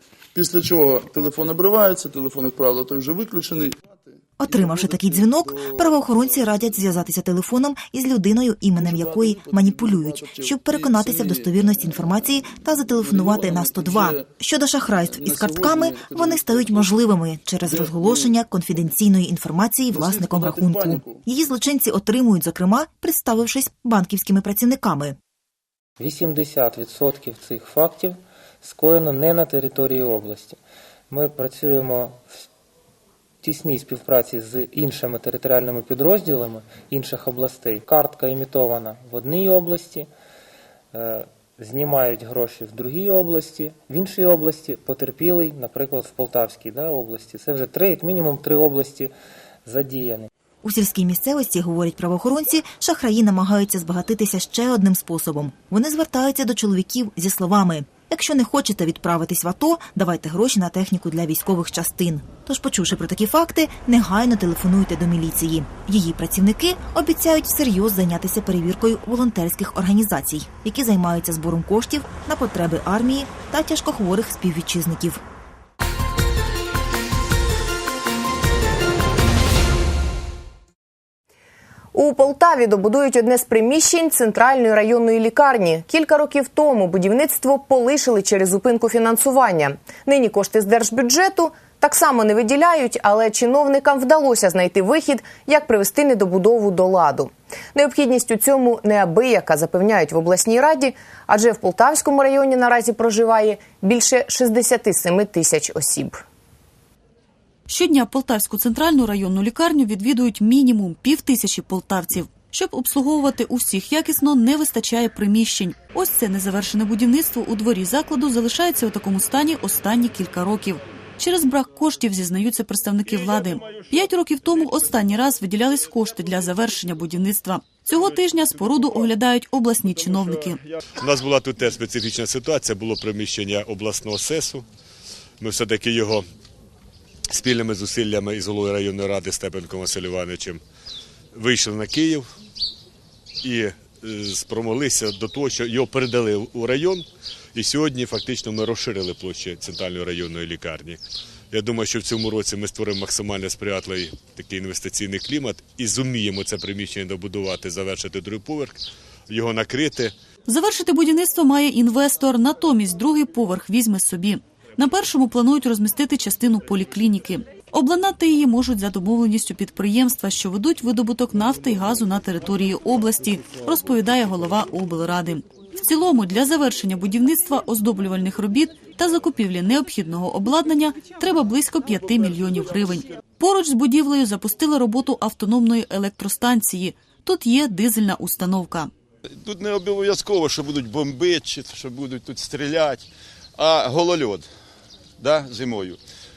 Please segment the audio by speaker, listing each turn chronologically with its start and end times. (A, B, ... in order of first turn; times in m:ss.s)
0:00.3-0:06.8 A
0:04.4-0:25.2 B
0:08.7-0:14.3 A
0:15.0-0:18.3 A
0:19.9-0:21.2 A
0:26.0-0:30.6 C
0:31.1-0:32.4 C
0:33.4-0:40.1 C
0:40.9-0:49.1 C
0:49.6-0:50.3 C
0:50.6-1:15.2 B
1:21.9-1:46.2 D
1:47.7-2:10.6 E
2:11.0-2:14.6 F
2:15.4-2:16.2 F
2:17.3-2:20.6 F
2:21.3-2:22.3 F
2:23.4-2:31.0 F
2:31.5-2:40.1 F
2:40.5-3:08.9 E
3:09.4-3:14.5 G
3:15.2-3:16.0 G